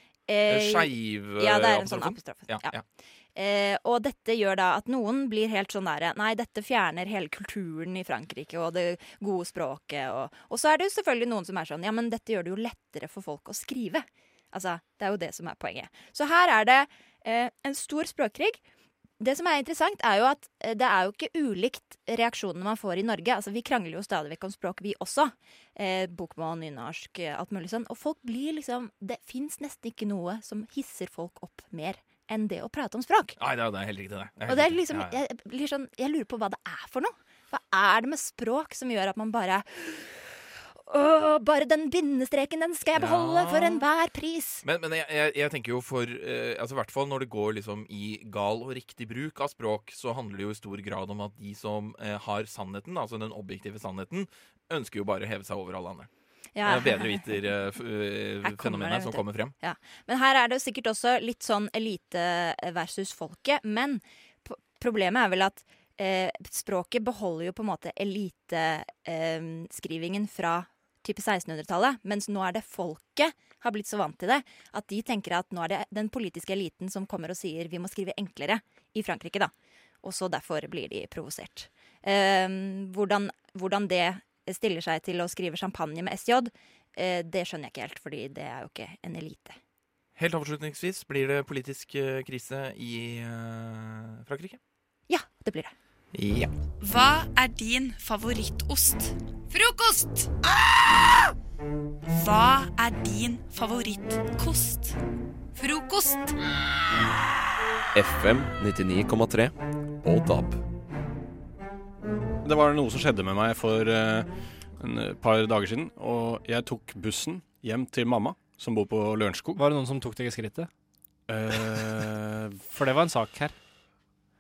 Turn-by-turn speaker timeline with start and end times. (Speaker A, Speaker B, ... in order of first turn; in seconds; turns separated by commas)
Speaker A: 0.3-2.8, Speaker B: 0.5-2.8, Speaker A: 3.4-18.6, Speaker A: 19.2-33.4, Speaker B: 33.4-35.1, Speaker A: 34.5-40.3, Speaker A: 40.9-44.6, Speaker B: 43.0-43.9, Speaker B: 44.6-56.1, Speaker A: 56.6-57.4, Speaker B: 56.6-59.5, Speaker A: 58.4-79.5, Speaker A: 80.0-89.6, Speaker B: 90.2-94.6, Speaker A: 95.1-95.7, Speaker B: 96.1-96.5, Speaker C: 96.8-100.3, Speaker C: 102.1-105.0, Speaker C: 105.5-106.3, Speaker D: 112.4-119.6, Speaker E: 119.5-120.7, Speaker D: 121.3-122.6, Speaker E: 122.7-124.2